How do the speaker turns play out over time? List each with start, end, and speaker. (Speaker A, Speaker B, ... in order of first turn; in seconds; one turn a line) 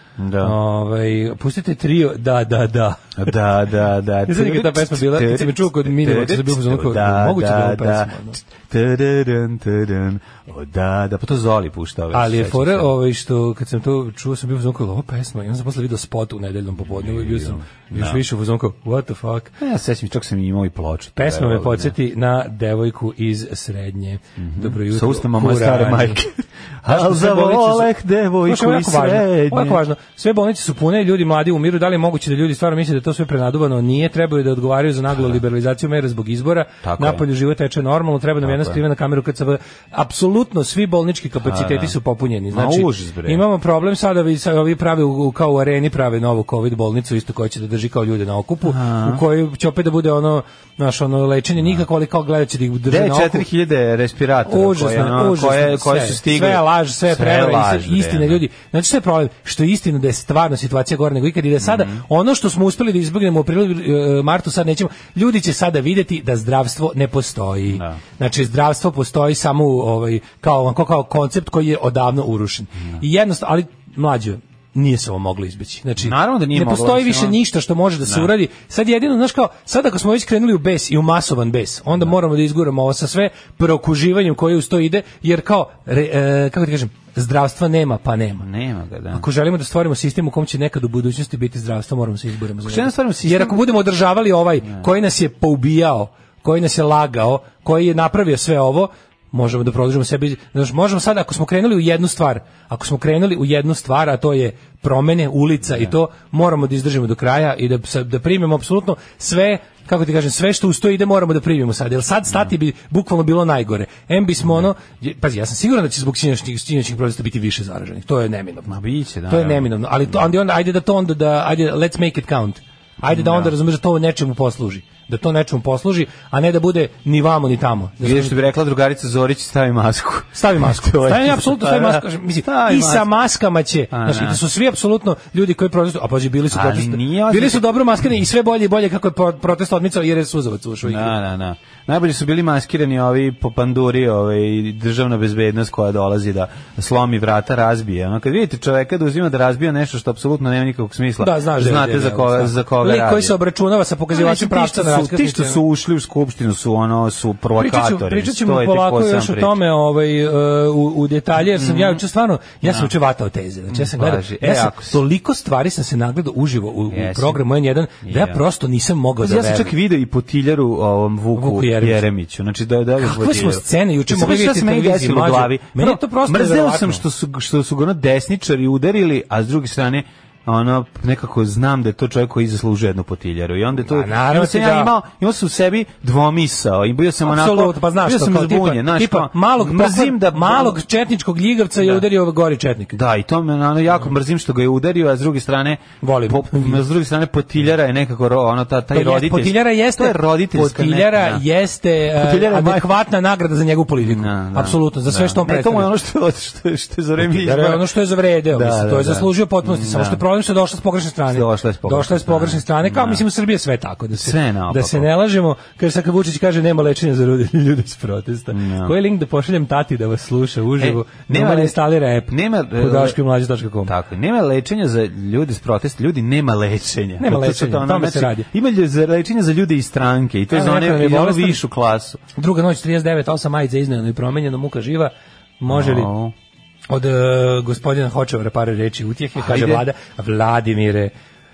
Speaker A: 0.2-0.6
Speaker B: 0.4-3.3
Speaker A: 3.2-12.9
Speaker B: 4.3-8.4
Speaker B: 12.1-19.5
Speaker A: 16.8-18.2
Speaker A: 19.6-21.9
Speaker B: 21.1-26.2
Speaker A: 24.4-29.8
Speaker B: 26.9-27.9
Speaker B: 28.4-53.5
Speaker A: 36.8-37.2
Speaker A: 38.4-38.8
Speaker A: 41.4-42.0
Speaker A: 42.5-43.4
Speaker A: 48.6-49.2
Speaker A: 52.9-58.4
Speaker B: 54.5-88.5
Speaker A: 61.6-62.0
Speaker A: 67.7-68.0
Speaker A: 76.0-77.4
Speaker A: 88.4-89.2
Speaker B: 89.1-118.7
Speaker A: 92.6-93.6
Speaker A: 118.7-120.3
Speaker B: 119.3-128.3
Speaker A: 123.1-123.5
Speaker A: 128.0-133.1
Speaker B: 130.3-141.1
Speaker A: 133.9-134.4
Speaker A: 136.5-137.6
Speaker A: 140.8-153.3
Speaker B: 151.2-155.6
Speaker A: 154.1-159.6
Speaker B: 157.6-169.7
Speaker A: 161.5-162.0
Speaker A: 162.6-162.9
Speaker A: 163.7-165.0
Speaker A: 166.9-167.4
Speaker A: 168.0-168.4
Speaker A: 169.2-190.8
Speaker B: 171.3-172.0
Speaker B: 173.0-177.0
Speaker B: 183.8-184.9
Speaker B: 187.2-192.9
Speaker A: 191.8-192.1
Speaker A: 192.9-201.4
Speaker B: 196.0-196.8
Speaker B: 198.9-205.9
Speaker A: 202.0-202.9
Speaker A: 204.0-207.9
Speaker B: 207.2-223.9
Speaker A: 208.5-210.2
Speaker A: 211.3-213.2
Speaker A: 214.2-215.1
Speaker A: 218.5-218.9
Speaker A: 220.8-223.2
Speaker A: 223.8-232.2
Speaker B: 227.2-228.5
Speaker B: 230.5-231.6
Speaker B: 232.3-236.1
Speaker A: 235.7-236.3
Speaker B: 236.9-241.1
Speaker A: 239.3-239.8